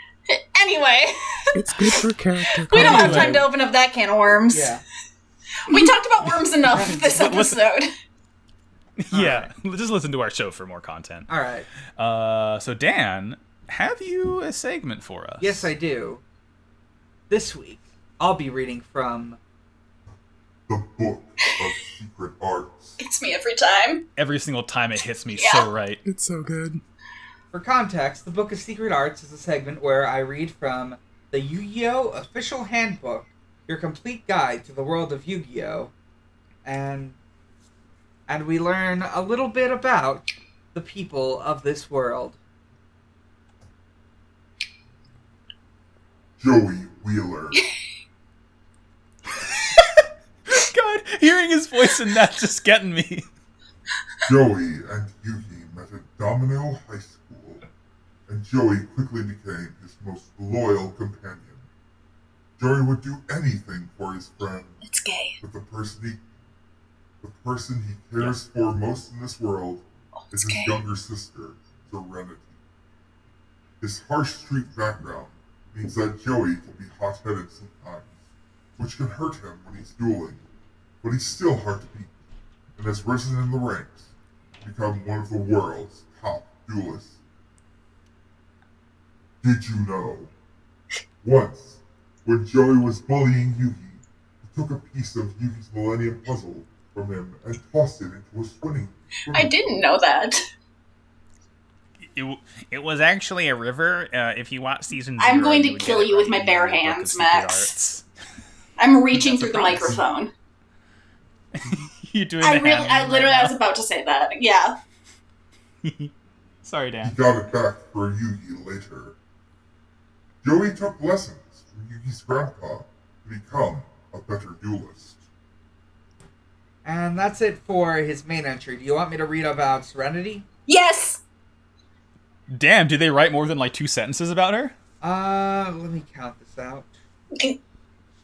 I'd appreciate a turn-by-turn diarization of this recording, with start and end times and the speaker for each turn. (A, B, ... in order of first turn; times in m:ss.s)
0:00.3-0:01.4 A
0:01.5-0:03.5 B
0:02.7-0:04.8 A
0:02.7-0:03.5 C
0:04.5-0:04.8 D
0:05.7-0:07.9 A
0:06.7-0:07.0 D
0:06.8-0:07.6 C
0:09.0-0:11.3 C
0:09.1-0:09.5 D
0:11.3-0:11.7 D
0:12.0-0:15.7 C
0:15.4-0:16.2 D
0:17.3-0:19.4 D
0:20.7-0:23.0 E
0:23.0-0:24.1 A
0:24.2-0:26.0 C
0:25.3-0:25.7 A
0:26.0-0:26.8 B
0:27.5-0:35.9 D
0:36.6-0:37.2 D
0:38.3-0:42.4 D
0:46.4-0:47.6 E
0:50.5-0:53.3 C
0:54.3-0:57.6 E
0:58.3-1:01.6 E
1:02.6-1:04.8 E
1:04.8-1:05.4 A
1:05.4-1:06.2 E
1:07.2-1:12.5 E
1:10.3-1:10.8 A
1:13.8-1:18.2 E
1:18.8-1:20.4 E
1:21.0-1:22.1 E
1:22.8-1:24.1 E
1:24.6-1:27.2 E
1:29.4-1:30.3 E
1:31.2-1:39.6 E
1:39.3-1:40.4 A
1:42.1-1:48.0 C
1:45.2-1:47.7 A
1:48.8-1:50.3 A
1:49.1-1:50.0 C
1:51.6-1:53.5 C
1:52.4-1:54.8 A
1:55.8-1:56.1 C
1:56.6-1:57.2 C
1:57.0-1:59.2 E
2:00.4-2:05.2 E
2:06.8-2:10.4 D
2:10.7-2:11.2 A
2:12.5-2:14.7 C
2:15.0-2:16.9 D